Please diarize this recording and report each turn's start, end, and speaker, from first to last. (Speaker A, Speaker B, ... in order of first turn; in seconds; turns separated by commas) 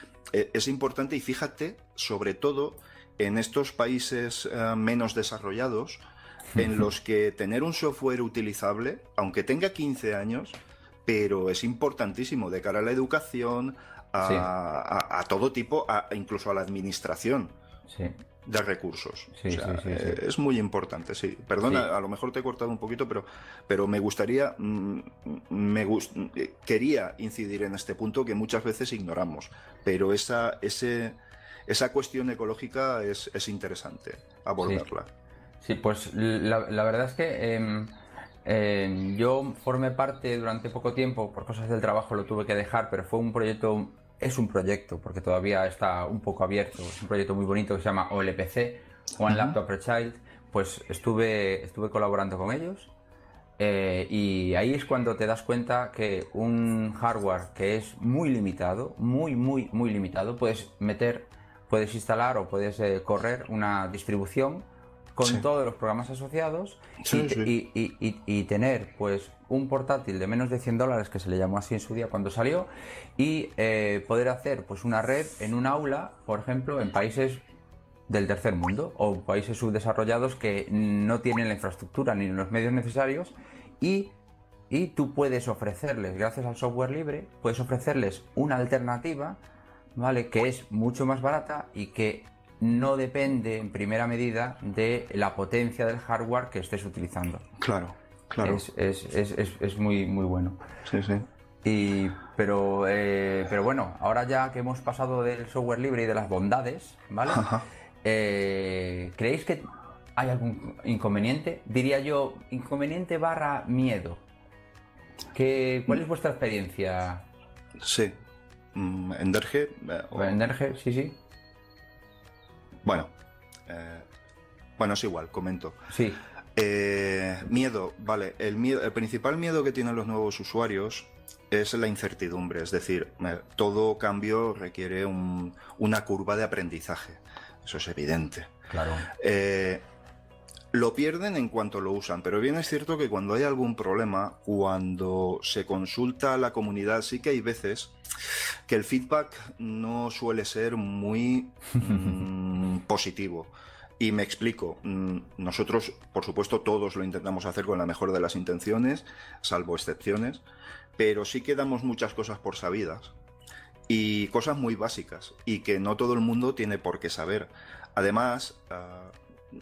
Speaker A: 0.3-6.0, Speaker A: 6.5-17.5, Speaker B: 14.2-14.5, Speaker B: 17.9-18.2, Speaker A: 18.4-35.1, Speaker B: 19.4-20.2, Speaker B: 35.6-52.9, Speaker A: 49.2-49.5, Speaker B: 53.6-77.4, Speaker A: 67.0-67.5, Speaker B: 78.1-84.1, Speaker B: 84.7-89.4, Speaker B: 90.0-97.4, Speaker A: 97.6-98.6, Speaker B: 98.4-100.6, Speaker A: 100.8-101.3, Speaker B: 101.6-107.4, Speaker A: 107.3-107.6, Speaker B: 108.0-114.2, Speaker B: 115.3-117.2, Speaker A: 117.8-118.1, Speaker A: 118.7-120.3, Speaker B: 120.1-121.2, Speaker A: 122.8-123.1, Speaker A: 123.7-124.0, Speaker A: 124.8-125.8, Speaker B: 125.9-126.2, Speaker A: 126.5-138.5, Speaker B: 138.7-139.1, Speaker A: 139.1-139.8, Speaker A: 140.7-147.9, Speaker A: 148.7-160.4, Speaker A: 161.0-163.1, Speaker A: 163.9-169.1